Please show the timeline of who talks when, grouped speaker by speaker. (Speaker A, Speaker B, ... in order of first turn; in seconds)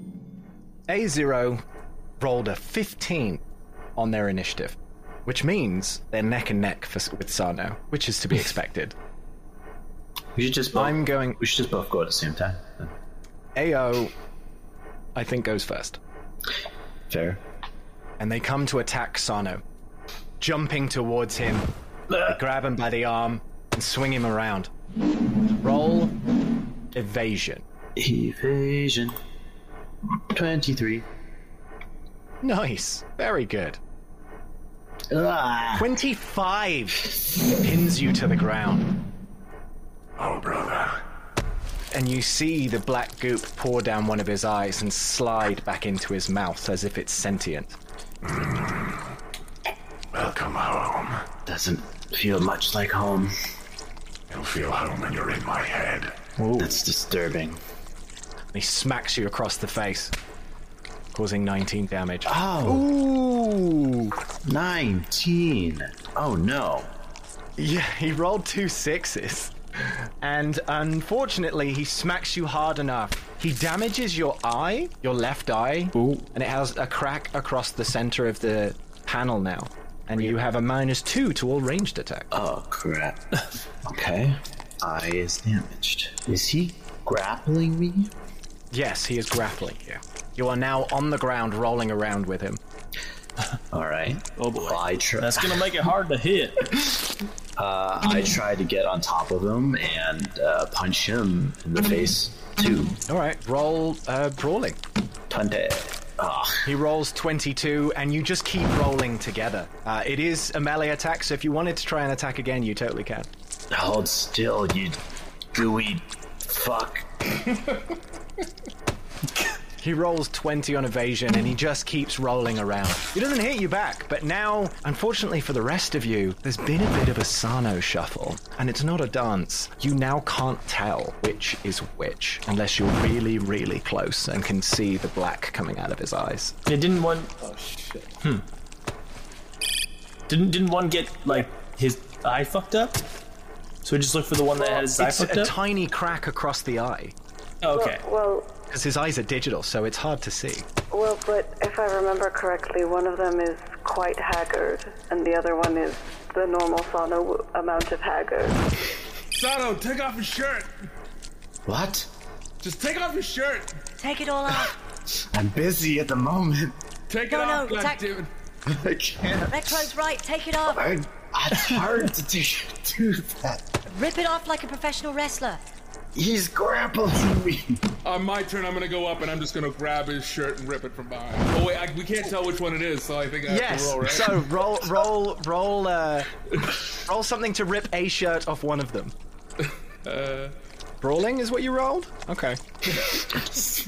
Speaker A: 0.9-1.6, 2.2-3.4, 4.0-8.9, 10.7-11.4, 13.6-14.1, 15.1-16.0, 18.2-19.6, 20.4-21.7, 22.2-24.7, 25.6-26.1, 26.9-27.6, 32.4-33.8, 35.8-38.9, 41.9-47.8, 58.5-60.1, 61.1-64.2, 67.6-69.5, 70.2-82.3, 88.7-92.6, 103.1-104.8, 106.6-113.3, 119.8-136.5, 144.9-147.1, 148.7-150.7, 183.4-186.3, 186.9-189.1, 191.0-192.6
Speaker B: 10.3-12.9, 17.1-17.4, 27.9-29.1, 30.3-31.1, 35.1-35.9, 51.4-53.3, 56.6-57.6, 62.3-62.8, 64.4-66.9, 82.3-83.2, 83.8-88.1, 93.7-95.7, 97.6-103.0, 105.3-106.6, 113.7-115.0, 115.5-117.0, 161.7-162.1, 164.5-166.8, 168.7-169.9, 170.7-173.8, 176.1-177.8
Speaker C: 40.2-41.0, 48.2-49.0, 50.1-51.3, 54.3-56.1
Speaker D: 56.4-56.7, 94.4-96.7, 136.7-137.3, 140.3-143.0, 143.8-145.5, 147.6-148.0
Speaker E: 137.4-138.1, 159.3-160.7, 162.6-163.8, 167.1-168.3, 178.0-184.5, 190.0-190.5
Speaker F: 147.7-148.5, 150.9-158.6
Speaker G: 164.0-164.7, 167.3-168.0, 169.5-170.8, 173.9-175.6